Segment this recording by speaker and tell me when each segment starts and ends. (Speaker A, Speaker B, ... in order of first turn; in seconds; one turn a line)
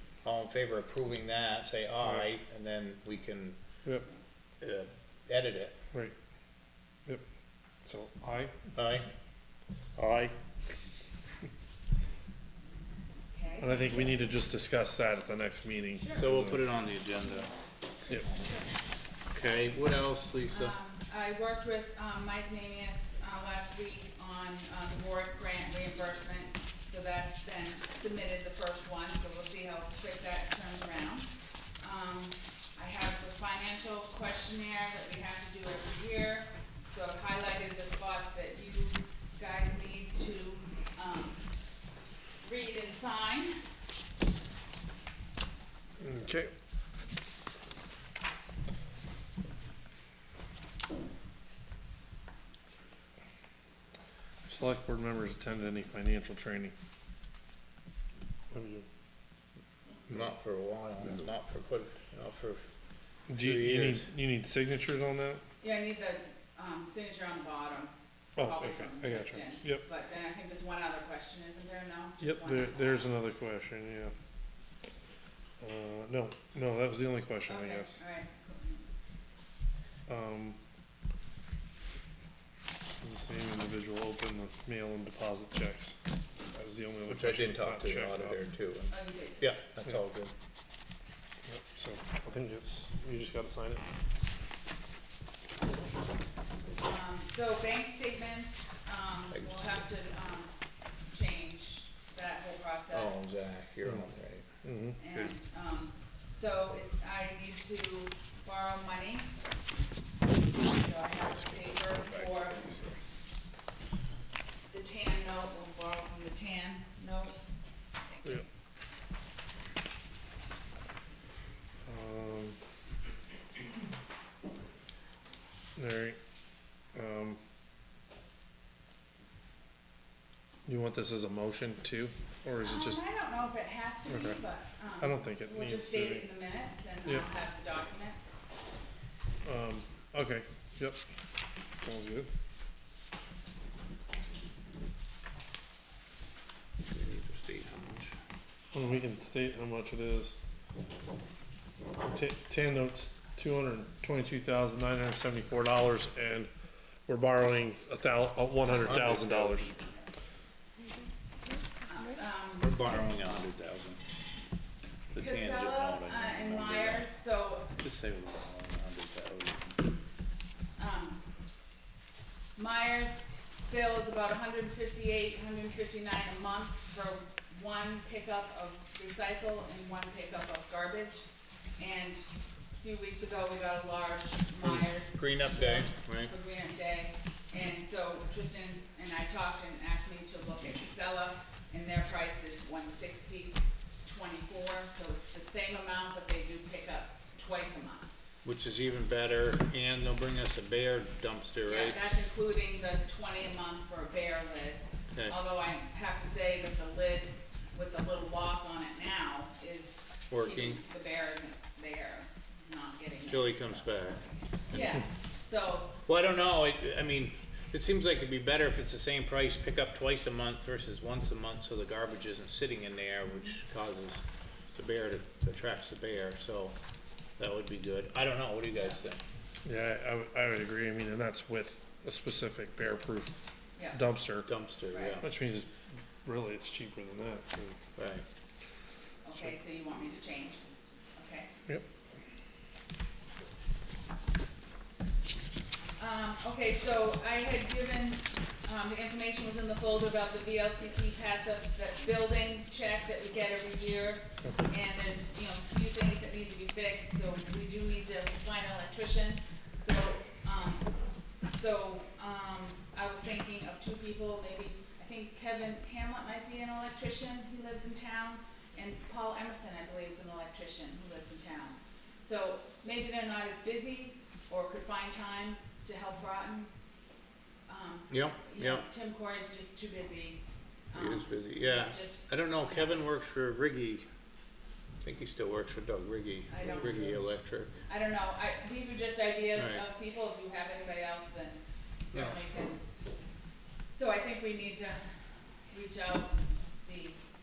Speaker A: 0.2-3.6
Speaker A: 4.6-5.8
Speaker B: 7.8-8.5
Speaker A: 8.8-9.1
Speaker A: 9.9-10.3
Speaker C: 13.3-14.3
Speaker B: 13.6-16.6
Speaker C: 15.9-16.3
Speaker A: 16.1-17.5
Speaker A: 19.3-20.8
Speaker C: 20.5-41.4
Speaker C: 42.4-43.5
Speaker B: 46.0-46.5
Speaker B: 54.5-56.7
Speaker B: 58.5-58.9
Speaker A: 60.1-62.7
Speaker B: 63.3-65.4
Speaker A: 63.4-64.1
Speaker C: 65.6-72.8
Speaker B: 68.4-69.8
Speaker B: 72.2-74.1
Speaker B: 75.6-78.0
Speaker C: 77.5-78.9
Speaker B: 80.1-80.6
Speaker B: 83.0-86.0
Speaker B: 86.5-88.4
Speaker A: 87.1-90.3
Speaker C: 88.9-89.5
Speaker B: 91.4-93.9
Speaker C: 96.8-100.5
Speaker A: 99.3-99.8
Speaker C: 101.1-103.2
Speaker A: 102.9-104.5
Speaker B: 104.6-105.0
Speaker C: 105.0-109.3
Speaker C: 110.6-112.7
Speaker C: 114.7-117.4
Speaker C: 118.0-118.5
Speaker B: 121.9-122.6
Speaker B: 125.8-126.2
Speaker B: 126.9-127.4
Speaker B: 130.7-133.0
Speaker C: 132.6-138.2
Speaker B: 134.1-134.4
Speaker B: 135.0-136.2
Speaker B: 139.4-141.0
Speaker B: 141.8-142.3
Speaker A: 146.9-148.1
Speaker B: 148.7-150.4
Speaker B: 152.0-156.5
Speaker B: 157.1-159.8
Speaker A: 158.7-159.8
Speaker C: 161.8-162.8
Speaker A: 162.6-164.0
Speaker A: 165.1-167.1
Speaker C: 165.2-167.7
Speaker A: 167.8-169.8
Speaker C: 170.8-171.2
Speaker C: 172.6-181.3
Speaker C: 181.8-182.2
Speaker C: 182.8-198.1
Speaker A: 184.6-186.3
Speaker A: 198.4-202.0
Speaker C: 201.7-214.0
Speaker A: 210.3-210.8
Speaker A: 213.3-214.2
Speaker C: 214.7-216.0
Speaker A: 216.1-226.8
Speaker A: 227.4-229.2
Speaker B: 229.6-234.5
Speaker A: 234.4-235.2
Speaker C: 234.9-235.2
Speaker B: 235.2-237.8
Speaker A: 237.9-238.2
Speaker C: 239.2-241.5
Speaker C: 246.0-276.7
Speaker C: 277.7-282.6
Speaker A: 278.1-278.9
Speaker A: 280.9-284.1
Speaker A: 285.0-287.7
Speaker C: 286.5-287.2
Speaker C: 287.9-292.8
Speaker A: 289.5-289.8
Speaker A: 292.1-292.4
Speaker C: 293.9-295.1
Speaker C: 295.7-297.2